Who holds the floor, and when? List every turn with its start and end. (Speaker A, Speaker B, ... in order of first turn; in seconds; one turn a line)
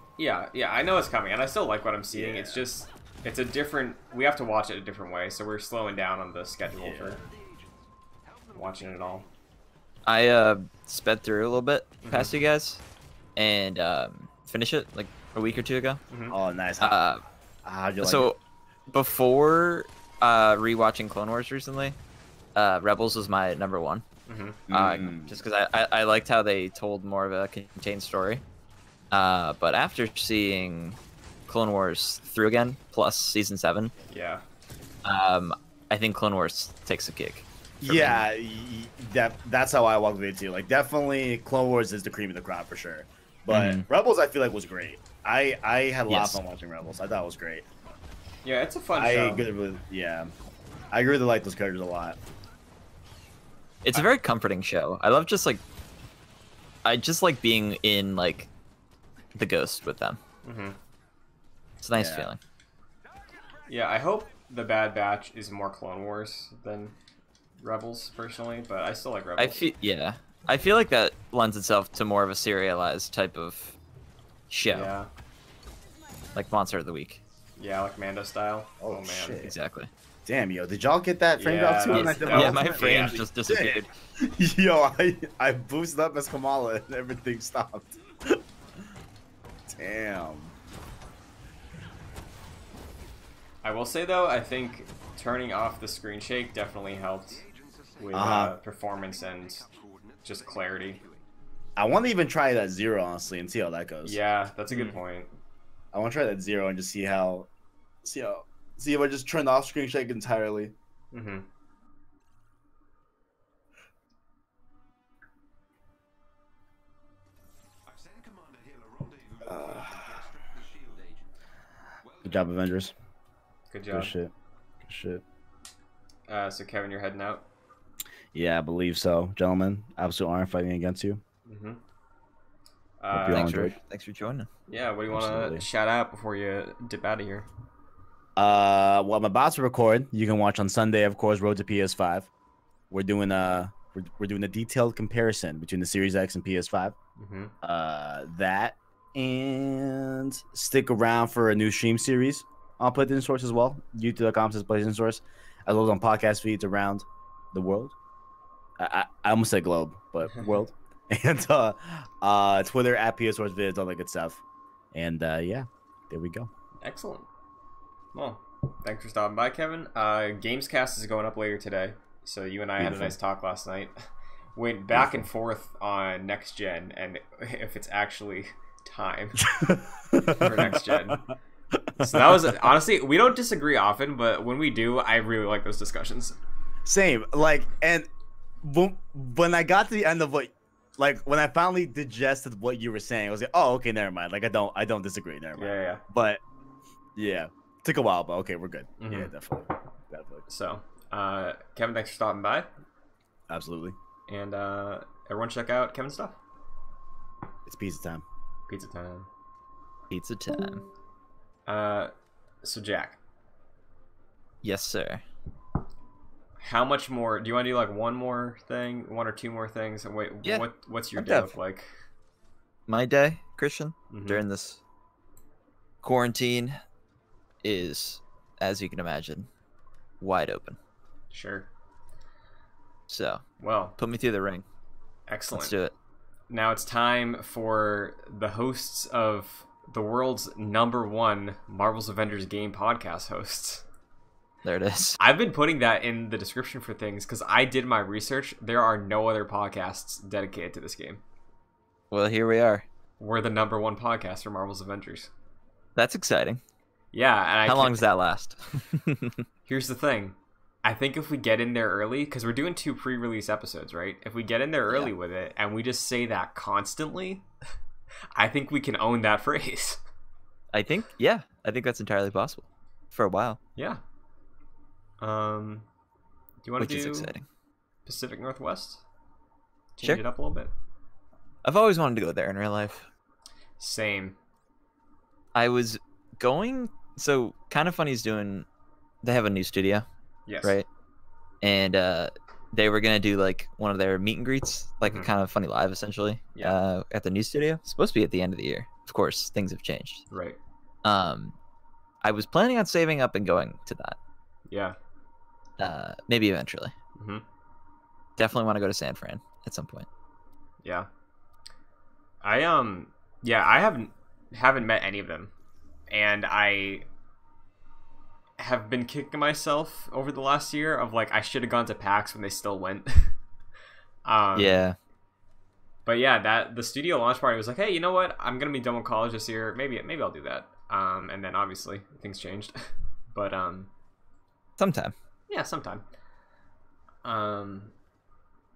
Speaker A: 0.2-7.2
Speaker B: 2.1-2.6
Speaker B: 6.8-7.2
Speaker C: 7.1-9.4
Speaker A: 8.5-9.2
Speaker D: 10.1-12.8
Speaker A: 12.0-12.4
Speaker D: 13.3-16.0
Speaker A: 16.1-16.3
Speaker B: 16.3-17.0
Speaker D: 16.8-17.2
Speaker B: 17.6-18.3
Speaker D: 18.0-18.4
Speaker D: 18.9-21.9
Speaker D: 22.5-24.0
Speaker A: 24.3-24.6
Speaker B: 24.7-25.4
Speaker D: 24.7-28.4
Speaker D: 29.1-33.9
Speaker A: 34.1-34.4
Speaker D: 35.0-38.2
Speaker B: 37.8-47.6
Speaker D: 43.5-43.8
Speaker D: 46.1-46.4
Speaker A: 48.4-49.5
Speaker B: 48.9-50.3
Speaker B: 50.9-52.2
Speaker D: 53.8-55.6
Speaker D: 56.8-58.5
Speaker D: 59.3-60.2
Speaker A: 60.4-60.8
Speaker D: 61.8-62.4
Speaker B: 61.9-62.3
Speaker C: 63.3-64.0
Speaker A: 63.7-66.9
Speaker A: 67.6-69.7
Speaker D: 69.4-73.8
Speaker D: 74.5-74.9
Speaker A: 74.7-75.1
Speaker D: 76.3-77.2
Speaker A: 77.6-79.4
Speaker B: 78.8-79.5
Speaker D: 79.4-79.9
Speaker B: 80.2-88.4
Speaker A: 81.4-83.2
Speaker D: 81.9-83.9
Speaker B: 89.7-90.5
Speaker A: 93.6-97.4
Speaker C: 97.3-101.3
Speaker A: 98.0-99.7
Speaker B: 98.1-98.5
Speaker A: 100.2-101.0
Speaker B: 101.8-104.2
Speaker A: 104.0-105.3
Speaker D: 104.7-105.0
Speaker B: 105.9-107.5
Speaker B: 108.0-110.7
Speaker A: 111.1-111.5
Speaker C: 117.9-121.3
Speaker B: 119.4-120.2
Speaker C: 122.0-122.5
Speaker B: 122.2-122.9
Speaker A: 123.7-124.1
Speaker B: 123.9-124.3
Speaker B: 124.8-125.2
Speaker A: 126.3-127.4
Speaker B: 128.3-131.2
Speaker A: 131.4-131.8
Speaker A: 133.0-133.5
Speaker B: 133.1-133.8
Speaker D: 133.3-134.5
Speaker A: 134.7-137.5
Speaker B: 135.1-135.7
Speaker B: 138.3-142.3
Speaker B: 142.9-146.9
Speaker A: 147.2-147.5
Speaker B: 147.6-157.9
Speaker B: 158.8-164.4
Speaker B: 164.9-166.5
Speaker A: 166.8-167.3
Speaker A: 168.1-179.5
Speaker B: 172.8-173.1
Speaker B: 174.9-175.3
Speaker B: 179.4-181.0
Speaker A: 180.3-181.2
Speaker B: 181.7-182.5
Speaker A: 182.0-186.3
Speaker B: 186.8-188.1
Speaker B: 188.6-196.4
Speaker A: 195.6-196.0
Speaker B: 197.2-200.4
Speaker A: 199.0-199.3
Speaker A: 200.5-202.7
Speaker B: 203.5-203.9
Speaker A: 204.3-206.4
Speaker B: 207.7-208.2
Speaker A: 208.7-209.3
Speaker D: 210.1-210.8
Speaker A: 211.7-212.1
Speaker A: 212.6-213.2
Speaker D: 214.6-215.2
Speaker A: 216.6-222.0
Speaker D: 220.4-221.5
Speaker D: 222.9-224.8
Speaker A: 224.1-224.4
Speaker D: 226.0-226.8
Speaker D: 227.6-229.5
Speaker D: 230.2-230.8
Speaker A: 231.3-231.7
Speaker D: 233.1-233.4
Speaker A: 233.6-234.0
Speaker D: 234.0-234.6
Speaker A: 235.3-235.7
Speaker D: 235.5-235.9
Speaker A: 236.5-243.8
Speaker D: 244.6-245.2
Speaker A: 245.2-251.2
Speaker D: 252.1-252.8
Speaker A: 253.2-255.3
Speaker D: 255.9-256.6
Speaker A: 257.1-258.0
Speaker D: 257.6-259.4
Speaker A: 259.7-267.4
Speaker A: 268.3-270.0
Speaker D: 270.7-273.6
Speaker A: 273.8-274.0
Speaker A: 275.2-275.9
Speaker A: 276.6-277.3
Speaker D: 276.8-277.4
Speaker A: 278.1-279.0
Speaker A: 280.0-280.7
Speaker D: 281.6-283.1
Speaker A: 283.8-284.4
Speaker D: 285.5-288.6
Speaker D: 289.2-290.1
Speaker A: 290.5-290.8
Speaker D: 291.6-300.2
Speaker A: 295.0-295.3
Speaker A: 300.3-300.6
Speaker D: 301.0-301.6
Speaker D: 302.2-304.2
Speaker A: 304.7-304.9
Speaker D: 305.8-306.9
Speaker A: 307.1-307.4
Speaker D: 308.4-310.1
Speaker A: 310.8-311.1
Speaker A: 312.4-315.5
Speaker A: 316.1-317.1
Speaker A: 318.6-323.4
Speaker A: 324.2-324.8
Speaker D: 324.6-324.9
Speaker A: 326.1-333.9
Speaker D: 334.8-335.1
Speaker A: 335.5-336.0
Speaker A: 337.2-337.9